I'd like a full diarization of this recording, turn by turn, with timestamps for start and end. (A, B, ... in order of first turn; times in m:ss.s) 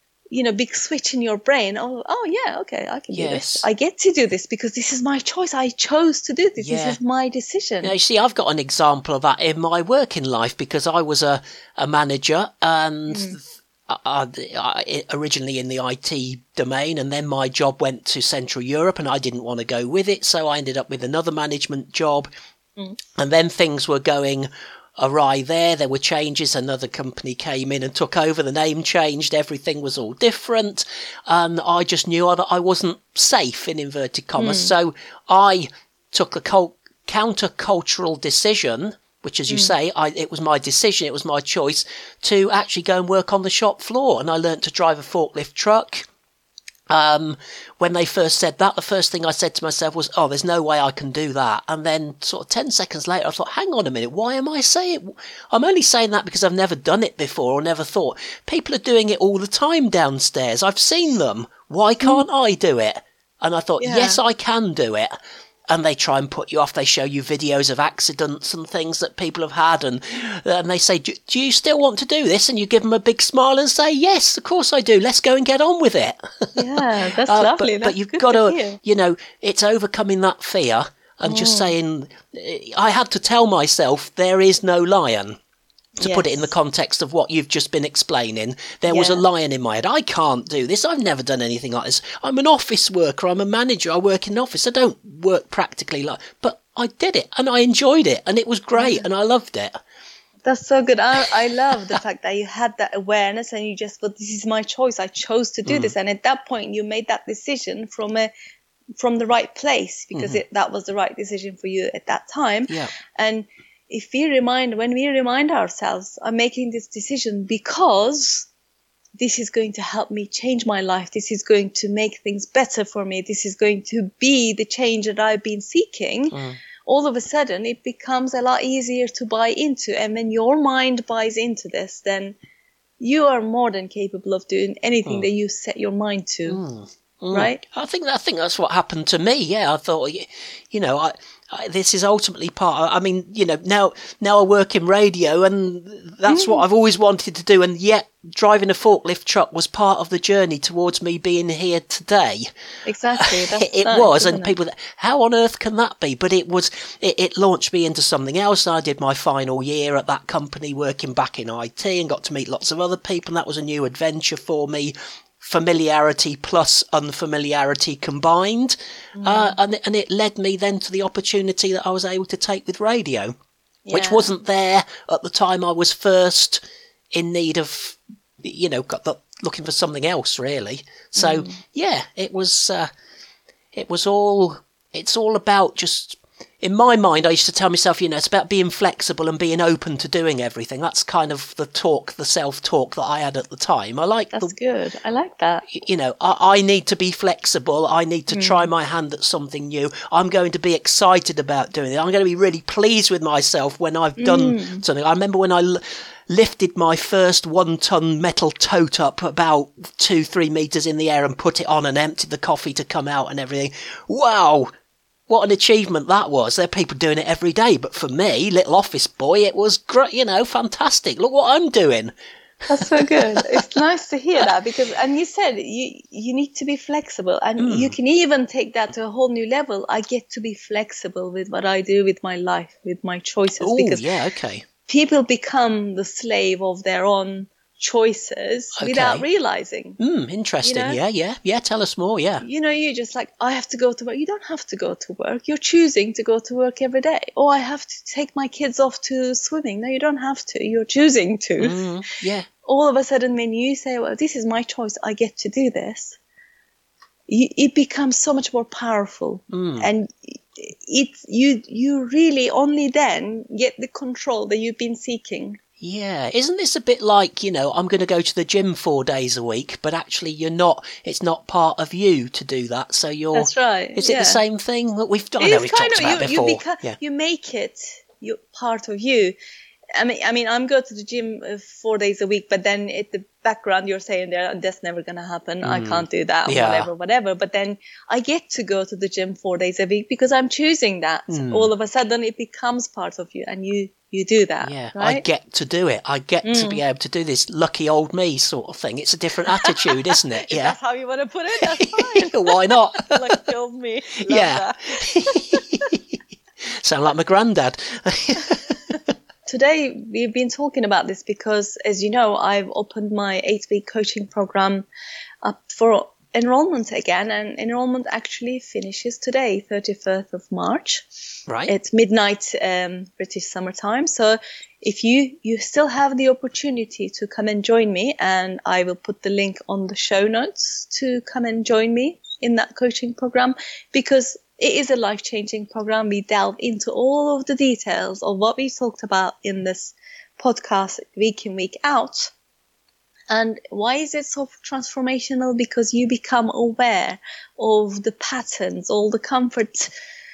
0:00.3-0:07.9 A
0:03.1-0:03.6 B
0:06.6-0:07.0 B
0:07.8-0:22.3 B
0:13.1-0:13.4 A
0:23.2-0:46.1 B
0:34.4-0:34.7 A
0:39.5-0:39.7 A
0:46.9-1:05.1 B
1:03.8-1:04.2 A
1:05.7-1:25.4 B
1:16.6-1:18.8 A
1:21.2-1:21.7 A
1:26.0-1:26.5 A
1:26.0-1:39.8 B
1:28.9-1:29.2 A
1:38.8-1:39.0 A
1:40.4-1:48.3 A
1:45.7-1:45.9 B
1:49.0-1:58.5 A
1:50.1-1:50.4 B
1:59.2-2:12.4 A
2:06.3-2:06.6 B
2:13.0-2:16.6 A
2:16.5-2:32.5 B
2:17.3-2:17.6 A
2:26.3-2:26.6 A
2:32.9-2:34.5 A
2:33.2-2:53.4 B
2:49.2-2:49.6 A
2:53.9-2:54.3 A
2:53.9-3:02.9 B
3:01.2-3:01.6 A
3:03.7-3:14.5 B
3:14.3-3:15.7 A
3:15.7-3:34.7 B
3:18.3-3:18.7 A
3:24.2-3:24.8 A
3:35.3-3:42.1 B
3:42.7-3:54.0 A
3:42.8-3:43.4 B
3:47.6-3:47.9 B
3:53.6-3:54.7 B
3:54.9-4:00.0 A
3:58.8-3:59.2 B
4:00.0-4:02.4 B
4:00.6-4:01.0 A
4:02.4-4:11.9 A
4:11.6-4:12.5 B
4:12.6-4:16.2 A
4:17.3-4:25.6 A
4:19.5-4:19.9 B
4:25.8-4:37.0 B
4:33.3-4:34.4 A
4:35.4-4:39.4 A
4:40.0-4:55.2 A
4:45.6-4:46.9 B
4:51.3-4:51.7 B
4:54.6-5:00.8 B
4:56.4-4:56.8 A
4:59.5-5:05.9 A
5:01.8-5:03.4 B
5:04.2-5:09.1 B
5:09.5-5:14.9 A
5:15.4-5:21.1 A
5:21.7-5:42.3 A
5:43.3-5:49.9 A